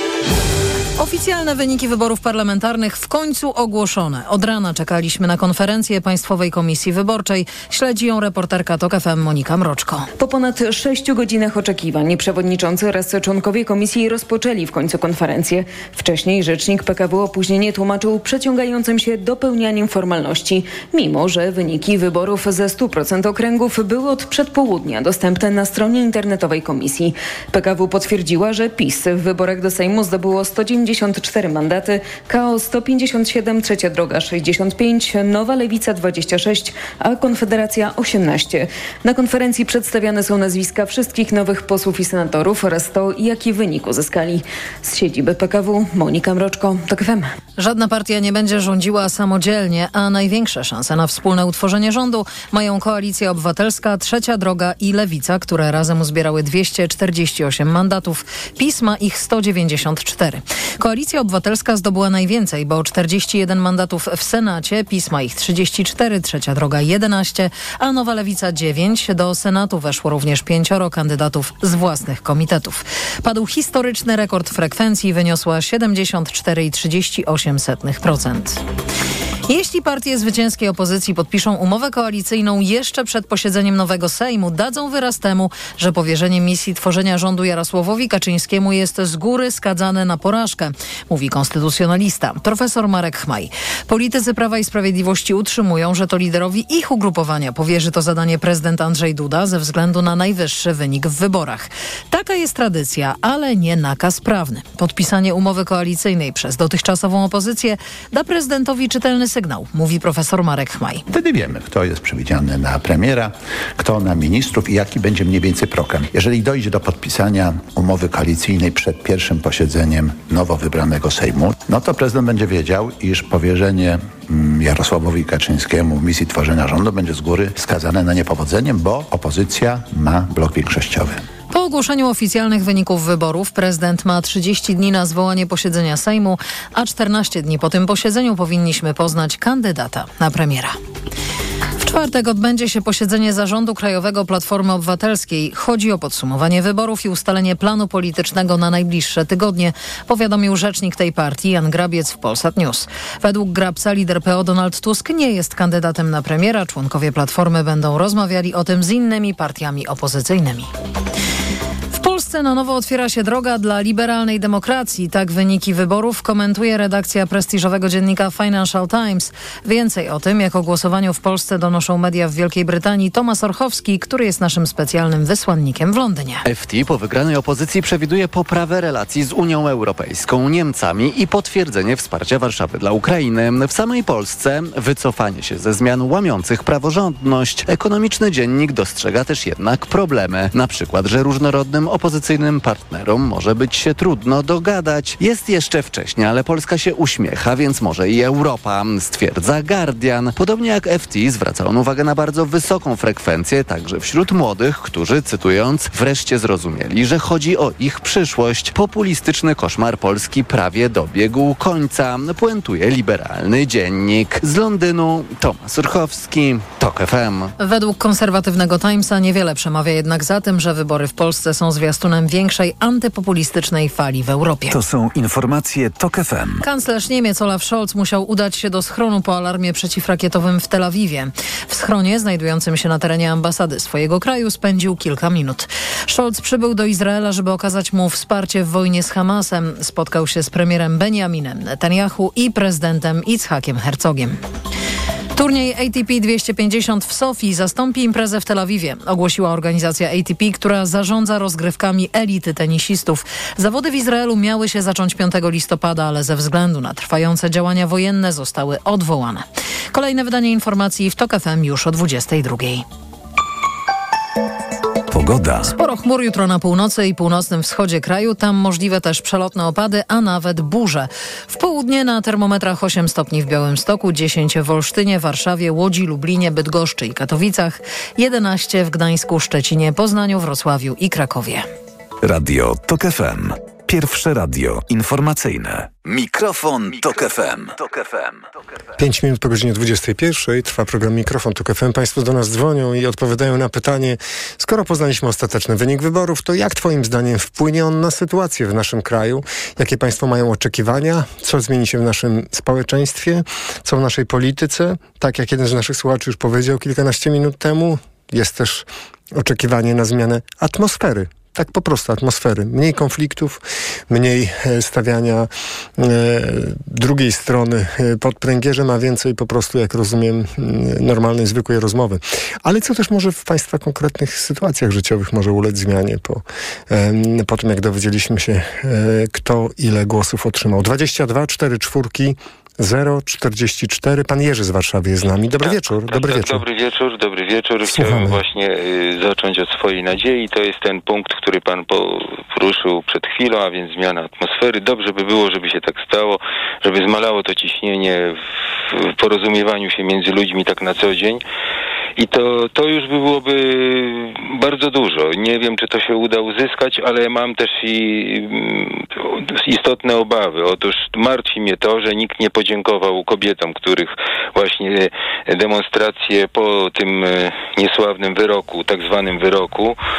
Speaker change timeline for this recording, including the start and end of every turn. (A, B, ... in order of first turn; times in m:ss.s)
0:01.0-0:10.1 A
0:10.2-0:47.3 B
0:47.6-1:18.6 A
1:19.5-1:51.0 A
1:51.1-2:11.2 C
2:11.5-2:20.8 A
2:21.8-2:40.7 A
2:41.9-2:56.4 A
2:56.4-3:37.5 D
3:37.6-3:44.8 A
3:44.7-3:46.6 E
3:46.6-4:04.4 A
4:05.3-4:22.8 A
4:25.1-4:25.7 E
4:25.7-4:41.6 A
4:42.2-4:48.4 E
4:49.0-5:36.6 F
5:35.6-5:48.4 G
5:37.9-5:38.4 F
5:48.9-5:51.4 G
5:52.2-6:10.0 G